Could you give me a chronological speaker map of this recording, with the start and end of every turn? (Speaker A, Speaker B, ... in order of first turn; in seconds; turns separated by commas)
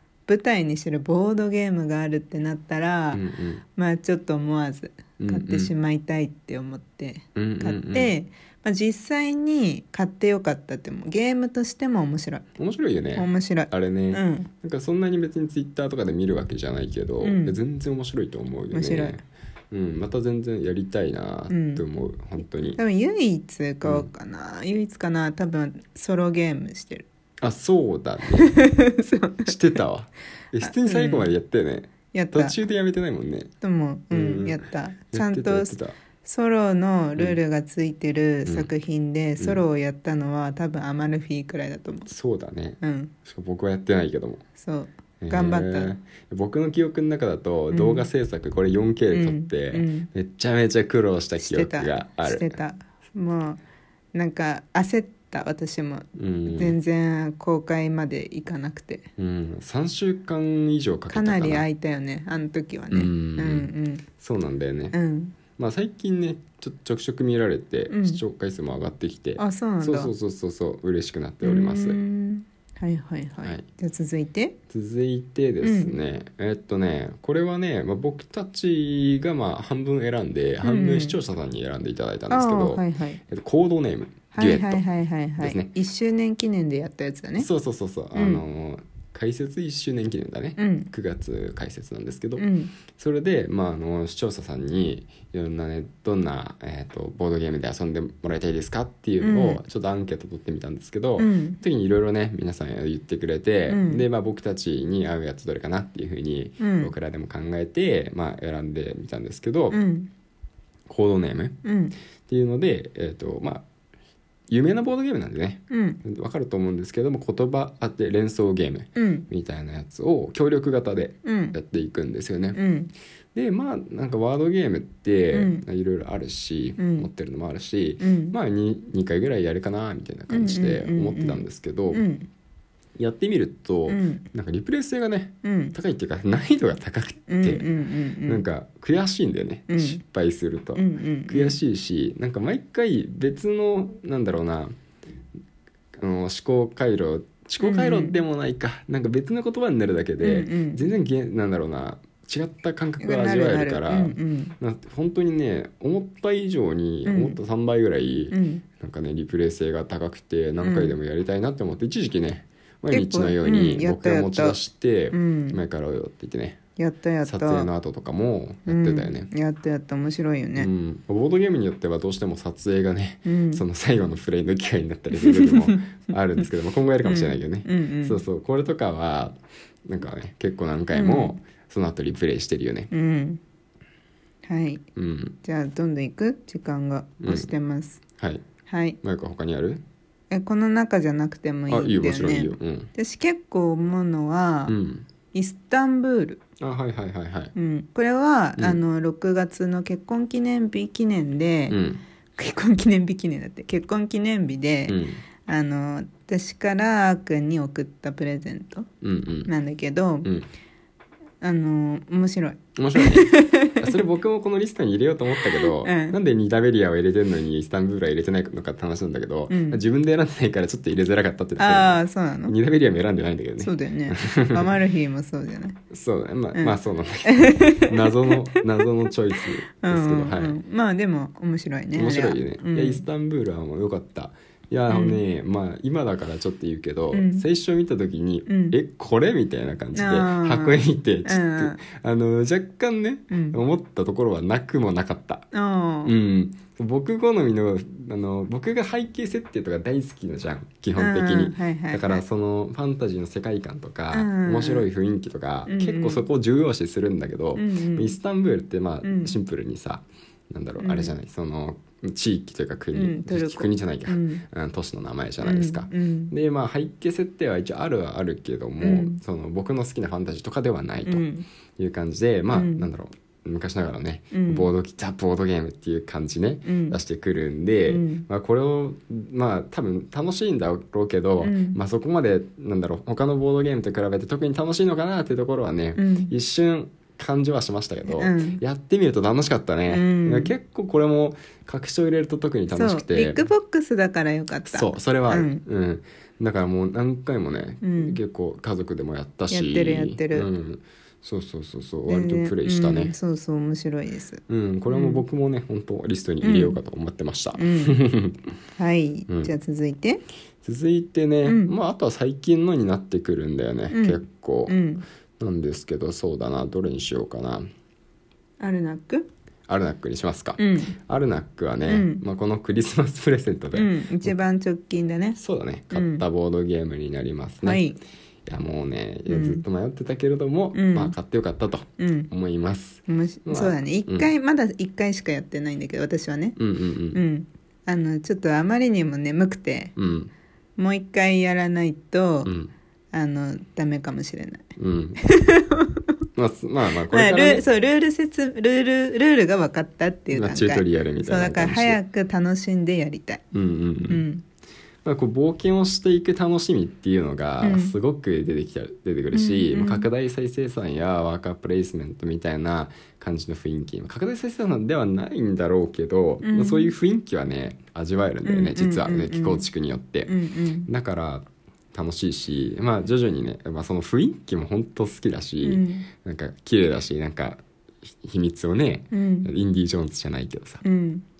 Speaker A: 0.3-3.2, Speaker B: 3.1-3.6, Speaker A: 3.8-12.5, Speaker B: 5.2-5.7, Speaker B: 7.3-8.1, Speaker B: 12.6-22.8, Speaker A: 13.1-14.5, Speaker A: 17.2-17.6, Speaker A: 18.7-19.2, Speaker A: 21.5-21.8, Speaker A: 22.8-27.0, Speaker B: 23.8-24.1, Speaker B: 27.4-28.5, Speaker A: 28.4-29.5, Speaker B: 29.4-33.5, Speaker A: 30.6-31.3, Speaker A: 32.1-32.6, Speaker A: 33.6-42.1, Speaker B: 34.1-36.0, Speaker B: 38.4-38.7, Speaker B: 39.4-39.6, Speaker B: 42.1-44.4, Speaker A: 42.8-43.1, Speaker A: 44.6-45.9, Speaker B: 45.2-52.6, Speaker A: 47.7-48.1, Speaker A: 49.1-50.1, Speaker A: 51.4-53.6, Speaker A: 54.1-59.1, Speaker B: 56.1-56.8, Speaker B: 59.2-61.6, Speaker A: 61.1-64.0, Speaker B: 62.9-65.0, Speaker A: 64.9-65.3, Speaker B: 65.5-72.0, Speaker A: 67.9-68.2, Speaker A: 69.4-70.1, Speaker A: 71.4-74.6, Speaker B: 74.7-84.8, Speaker A: 75.6-75.9, Speaker A: 80.6-81.2, Speaker A: 82.3-83.2, Speaker A: 84.3-87.5, Speaker B: 85.4-85.7, Speaker B: 87.4-109.8, Speaker A: 88.1-88.4, Speaker A: 90.6-90.9, Speaker A: 92.4-92.7, Speaker A: 99.2-99.6, Speaker A: 101.2-101.6, Speaker A: 103.7-104.0, Speaker A: 106.6-106.9, Speaker A: 109.7-110.1, Speaker B: 110.9-111.6, Speaker A: 111.6-111.9, Speaker B: 112.3-113.6, Speaker B: 114.5-122.6, Speaker A: 115.7-116.0, Speaker A: 119.0-119.3, Speaker A: 121.2-121.6, Speaker A: 122.5-122.9, Speaker B: 123.3-132.0, Speaker A: 125.3-125.6, Speaker A: 126.8-127.1, Speaker A: 128.0-128.4, Speaker A: 130.3-132.3, Speaker B: 133.0-137.7, Speaker A: 133.9-134.2, Speaker A: 135.4-135.8, Speaker A: 137.3-138.4, Speaker B: 138.2-144.8, Speaker A: 139.7-140.0, Speaker A: 140.8-141.6, Speaker B: 146.0-166.6, Speaker A: 147.6-148.2, Speaker A: 150.2-150.8, Speaker A: 153.0-154.5, Speaker A: 157.1-157.4, Speaker A: 158.3-158.6, Speaker A: 160.6-160.9, Speaker A: 162.9-164.6, Speaker A: 165.1-165.6, Speaker A: 166.8-167.7, Speaker B: 167.2-169.3, Speaker A: 168.7-170.7, Speaker B: 170.6-182.9, Speaker A: 173.2-173.6, Speaker A: 175.2-175.9, Speaker A: 177.0-178.2, Speaker A: 180.9-181.3, Speaker A: 182.9-183.4, Speaker A: 184.4-184.8, Speaker B: 184.9-185.4, Speaker A: 185.4-188.0, Speaker B: 187.2-187.5, Speaker B: 188.2-188.4, Speaker A: 188.7-189.0, Speaker B: 189.0-189.8, Speaker A: 190.3-194.8, Speaker B: 191.7-192.9, Speaker B: 194.7-195.1, Speaker A: 195.3-196.4, Speaker B: 196.6-197.5, Speaker A: 197.5-201.8, Speaker B: 201.7-202.0, Speaker A: 202.4-208.9, Speaker B: 204.9-205.2, Speaker B: 209.0-209.5, Speaker A: 209.5-210.3, Speaker B: 210.2-210.5, Speaker A: 211.4-213.9, Speaker B: 212.8-224.7, Speaker A: 215.3-216.2, Speaker A: 219.5-219.8, Speaker A: 221.6-222.6, Speaker A: 223.6-225.8, Speaker B: 225.9-230.6, Speaker A: 226.5-228.6, Speaker A: 229.8-233.0, Speaker B: 231.9-245.5, Speaker A: 234.9-235.2, Speaker A: 237.1-237.4, Speaker A: 238.5-238.8, Speaker A: 239.9-241.8, Speaker A: 243.3-243.6, Speaker A: 245.5-246.1, Speaker B: 246.0-293.4, Speaker A: 250.9-252.2, Speaker A: 254.1-254.9, Speaker A: 255.7-256.3, Speaker A: 257.6-258.2, Speaker A: 259.0-259.3, Speaker A: 260.8-261.1, Speaker A: 262.9-264.4, Speaker A: 265.4-266.3, Speaker A: 268.8-269.2, Speaker A: 271.1-271.5, Speaker A: 272.5-272.9, Speaker A: 274.3-274.7, Speaker A: 276.6-277.0, Speaker A: 277.9-278.2, Speaker A: 281.4-281.8, Speaker A: 285.9-286.3, Speaker A: 288.1-288.6, Speaker A: 289.9-290.5, Speaker A: 292.7-295.6, Speaker B: 294.7-303.1, Speaker A: 297.8-298.2, Speaker A: 299.5-300.5, Speaker A: 302.1-305.2, Speaker B: 304.5-308.4, Speaker A: 306.4-306.8, Speaker A: 307.6-308.0, Speaker A: 308.8-310.2, Speaker B: 310.6-314.8, Speaker A: 311.4-311.7, Speaker A: 313.9-315.0, Speaker B: 315.4-317.7, Speaker A: 318.6-319.3, Speaker B: 319.7-324.4, Speaker A: 320.6-320.9, Speaker A: 321.9-322.2, Speaker A: 323.7-325.4, Speaker B: 325.4-327.8, Speaker A: 325.9-326.2, Speaker A: 327.6-328.0, Speaker B: 328.4-334.3, Speaker A: 329.3-329.6, Speaker A: 330.7-331.1, Speaker A: 332.0-332.3, Speaker A: 333.1-336.6, Speaker B: 336.6-337.2, Speaker A: 337.1-339.9, Speaker B: 339.9-340.3, Speaker A: 340.8-342.5, Speaker B: 342.4-342.7, Speaker A: 343.1-344.6, Speaker B: 344.8-345.2, Speaker A: 345.2-346.1, Speaker B: 346.4-347.7, Speaker A: 347.1-353.4, Speaker B: 350.3-352.0, Speaker B: 353.5-354.2, Speaker A: 354.1-354.4, Speaker B: 355.0-380.8, Speaker A: 357.6-357.9, Speaker A: 359.3-360.1, Speaker A: 366.4-366.9, Speaker A: 368.4-369.7, Speaker A: 370.3-370.9, Speaker A: 375.6-376.1, Speaker A: 379.1-379.5, Speaker A: 380.8-381.2